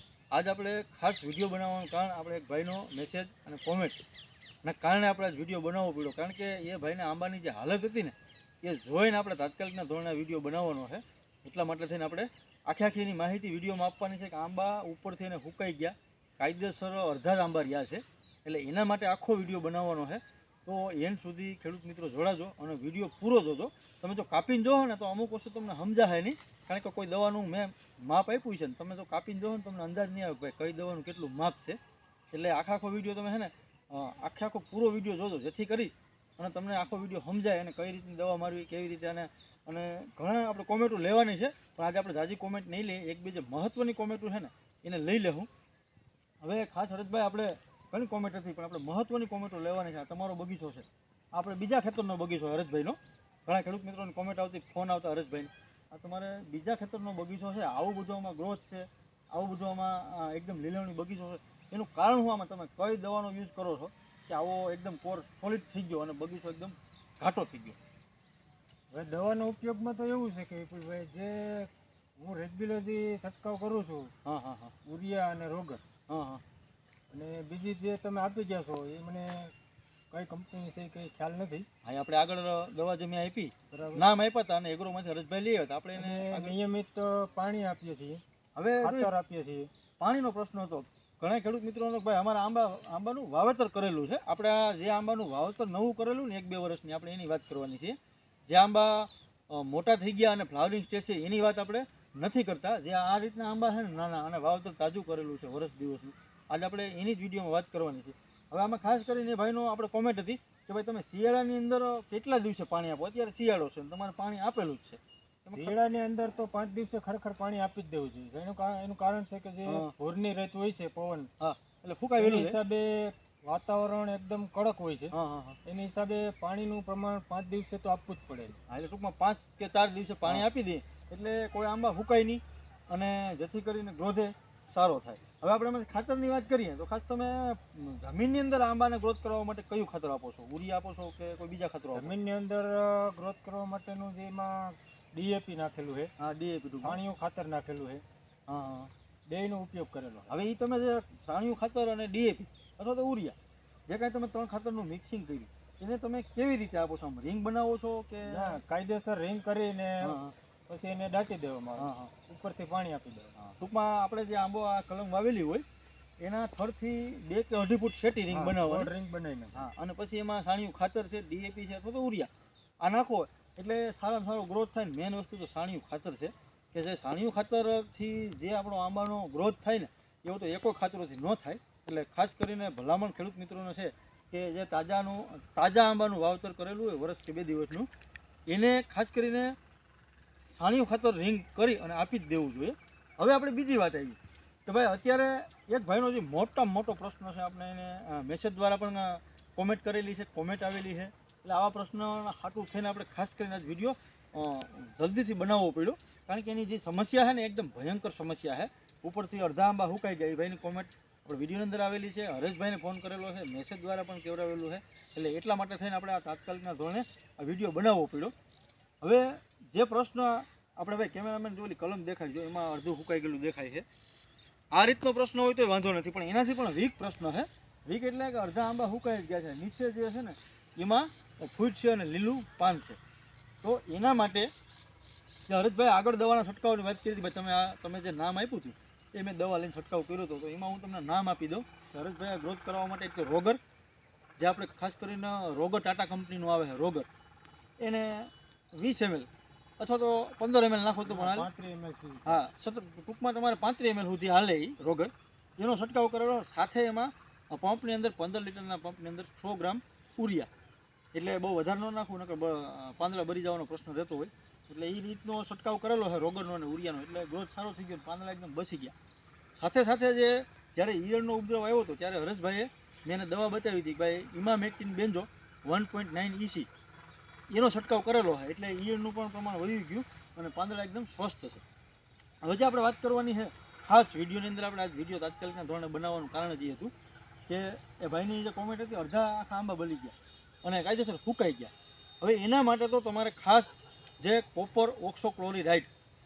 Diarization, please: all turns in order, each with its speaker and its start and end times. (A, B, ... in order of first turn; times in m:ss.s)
0:00.3-0:04.0 A
0:04.6-0:31.8 A
0:32.3-0:45.5 A
0:46.4-1:07.8 A
1:08.9-1:14.1 B
1:14.2-1:14.7 A
1:14.8-1:15.8 B
1:16.1-1:16.4 A
1:17.1-1:19.5 B
1:20.1-1:21.7 B
1:21.8-1:26.6 A
1:23.7-1:24.1 B
1:25.9-1:28.2 B
1:28.5-1:29.1 A
1:28.8-1:29.7 B
1:30.0-1:55.7 A
1:55.5-2:01.3 B
1:59.6-1:59.9 A
2:01.4-2:02.6 A
2:02.2-2:08.6 B
2:05.1-2:05.6 A
2:08.7-2:22.2 A
2:21.9-2:26.1 B
2:26.2-2:27.0 A
2:26.8-2:28.0 B
2:28.5-2:28.9 A
2:29.3-2:30.3 B
2:30.3-2:33.4 A
2:33.9-2:38.6 A
2:38.2-2:43.5 B
2:40.0-2:40.3 A
2:41.8-2:42.1 A
2:43.6-2:45.6 A
2:46.2-2:48.9 A
2:48.3-2:49.7 B
2:49.5-2:52.3 A
2:52.8-3:07.9 A
3:08.5-3:09.6 A
3:10.5-3:38.3 A
3:39.0-3:43.8 A
3:44.7-3:53.0 A
3:53.6-3:54.5 A
3:55.5-4:03.6 A
4:04.4-4:07.1 A
4:07.8-4:09.3 A
4:09.8-4:11.5 A
4:11.0-4:12.4 B
4:12.2-4:20.5 A
4:21.1-4:28.9 A
4:29.6-4:36.7 A
4:37.5-4:41.6 A
4:42.4-4:46.9 A
4:47.5-4:55.9 A